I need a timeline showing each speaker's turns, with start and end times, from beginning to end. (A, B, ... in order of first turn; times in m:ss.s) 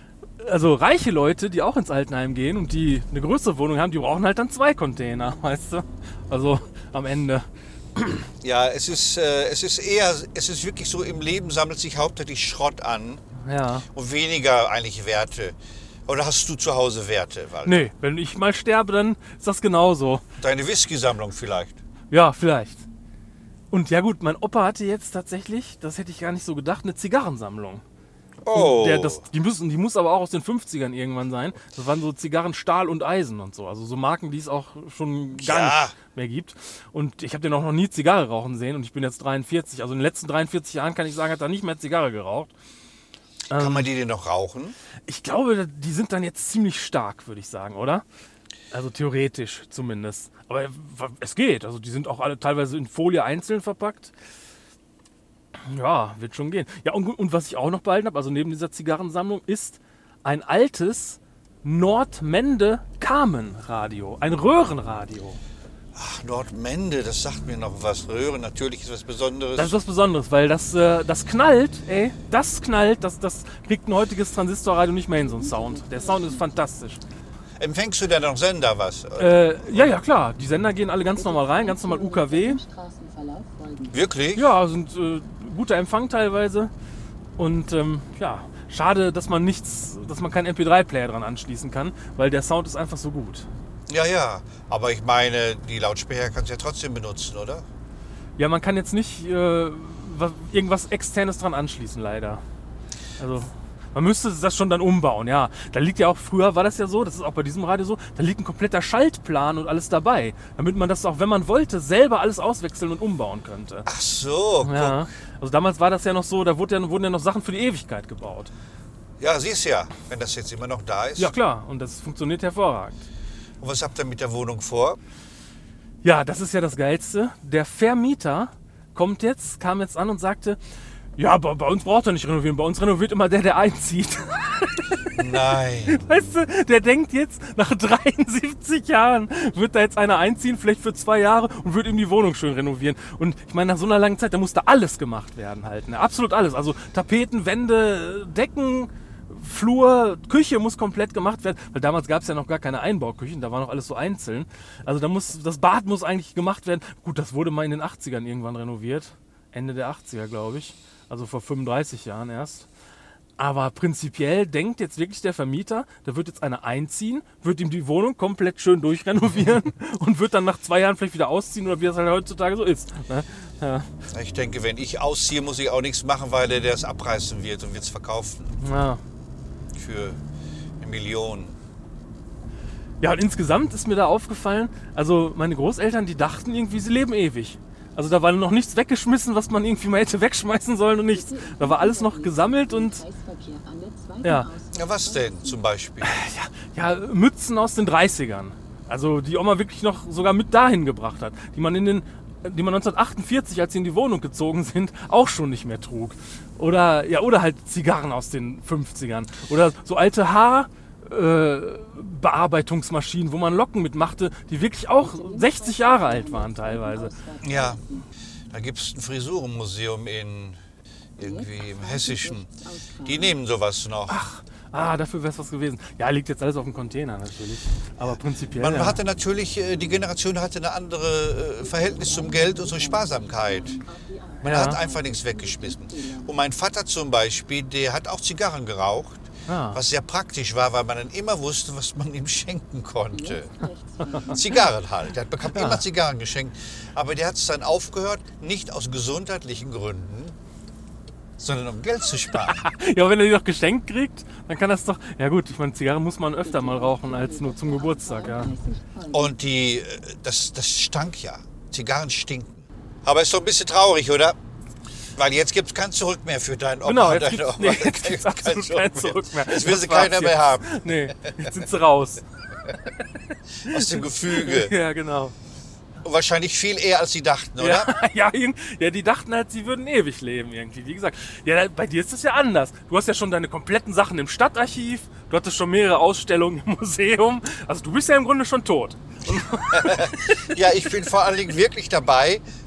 0:00.4-0:08.3 A
0:08.4-0:13.2 B
0:13.4-0:13.9 A
0:13.9-0:15.6 B
0:16.1-0:17.9 B
0:17.6-0:20.2 A
0:20.4-0:21.8 B
0:22.1-0:22.8 A
0:23.7-0:27.8 A
0:28.4-0:29.3 B
0:28.5-0:42.5 A
0:35.3-0:36.0 B
0:43.5-0:43.9 A
0:43.5-0:44.8 B
0:45.1-0:48.0 A
0:48.7-0:54.1 A
0:55.6-1:05.4 A
1:05.9-1:09.8 B
1:09.6-1:17.0 A
1:15.2-1:16.6 C
1:17.6-1:20.0 B
1:19.2-1:22.6 A
1:21.1-1:23.9 C
1:23.9-1:24.5 B
1:24.3-1:26.7 A
1:27.4-1:33.5 A
1:33.9-1:37.6 B
1:38.4-1:42.4 A
1:43.2-1:53.9 A
1:53.8-1:55.1 B
1:54.6-1:58.5 A
1:59.2-2:01.4 B
2:01.2-2:03.0 A
2:03.6-2:05.0 B
2:06.0-2:10.6 A
2:11.2-2:42.7 A
2:15.1-2:16.4 B
2:43.4-2:53.9 A
2:54.1-2:58.6 B
2:58.6-2:59.0 A
2:59.7-3:00.2 B
3:00.8-3:01.6 B
3:03.0-3:13.0 A
3:11.1-3:15.6 C
3:14.2-3:14.5 A
3:14.7-3:16.2 B
3:16.0-3:37.2 A
3:35.0-3:38.1 C
3:37.4-3:37.8 B
3:38.5-3:40.6 B
3:41.2-3:44.2 B
3:41.2-3:43.3 C
3:44.1-3:49.0 A
3:48.5-3:53.8 B
3:51.6-3:56.4 C
3:54.4-3:54.8 A
3:54.4-4:03.6 B
3:59.5-3:59.8 A
4:03.1-4:04.6 C
4:04.1-4:04.6 A
4:04.2-4:10.4 B
4:05.4-4:05.8 A
4:11.4-4:12.7 B
4:12.3-4:18.5 A
4:16.4-4:19.3 C
4:19.1-4:24.4 B
4:25.1-4:31.5 B
4:26.8-4:32.2 A
4:33.6-4:34.7 B
4:33.6-4:35.3 A
4:36.0-4:38.0 B
4:37.6-4:50.9 A
4:49.6-4:52.4 B